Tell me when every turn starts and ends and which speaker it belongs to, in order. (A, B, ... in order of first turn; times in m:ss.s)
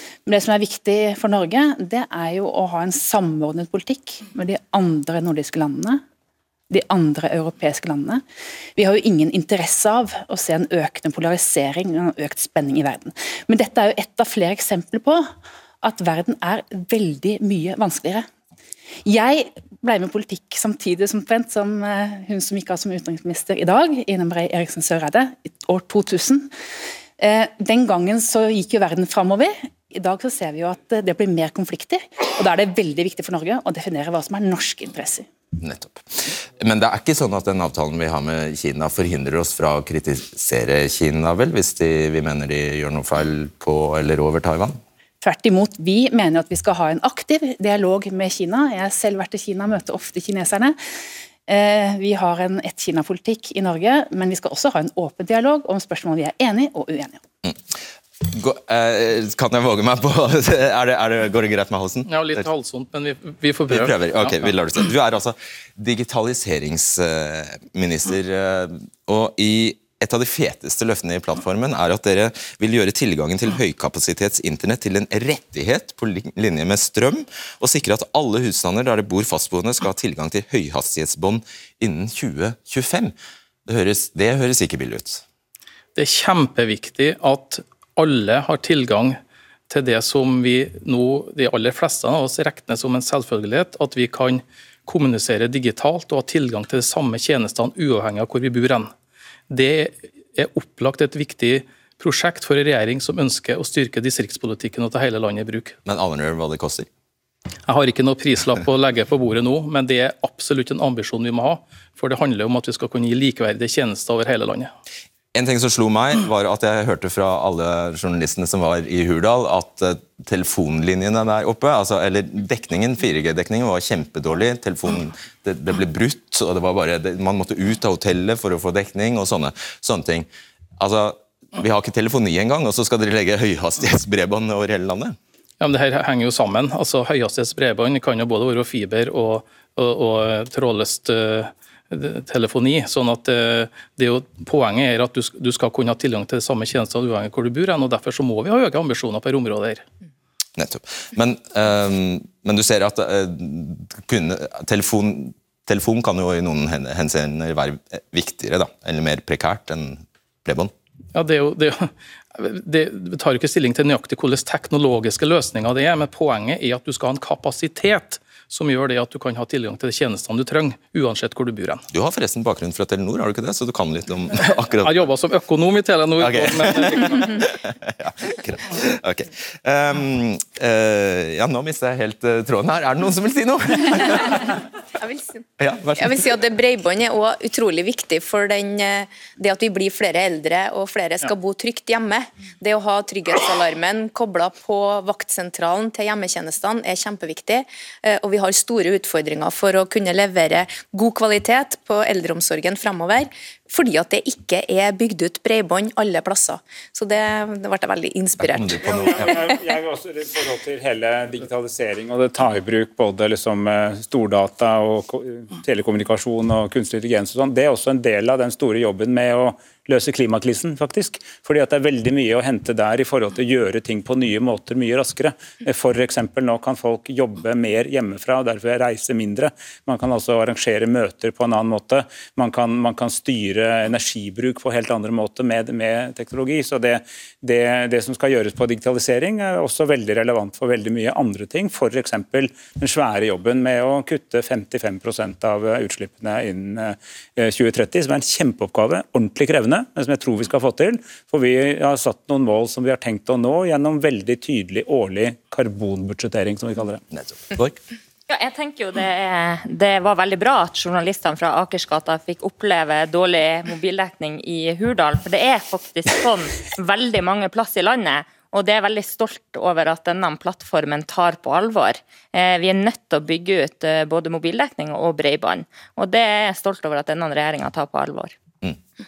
0:00.2-0:06.0 A
0:06.7-0:08.2 A
0:08.8-0:15.3 A
0:15.8-0:18.3 A
0:19.0-0:26.5 A
0:27.2-0:35.2 A
0:35.6-0:44.8 B
0:45.2-0:50.8 A
0:51.5-0:57.2 A
0:58.2-1:02.5 B
1:02.1-1:04.5 C
1:03.7-1:23.1 B
1:23.7-1:25.2 B
1:26.0-1:29.2 C
1:29.7-1:38.9 C
1:39.5-1:45.8 C
1:45.8-1:46.9 B
1:47.6-1:54.7 C
1:55.3-2:10.3 B
2:10.8-2:15.2 B
2:15.6-2:29.8 C
2:30.6-2:40.7 B
2:41.1-2:51.8 C
2:51.9-2:55.1 B
2:54.8-2:57.5 C
2:56.2-3:04.5 B
3:05.0-3:05.4 D
3:05.6-3:06.2 B
3:06.0-3:29.1 D
3:28.4-3:29.5 B
3:28.9-4:17.0 E
4:17.1-4:17.8 B
4:18.3-4:38.3 F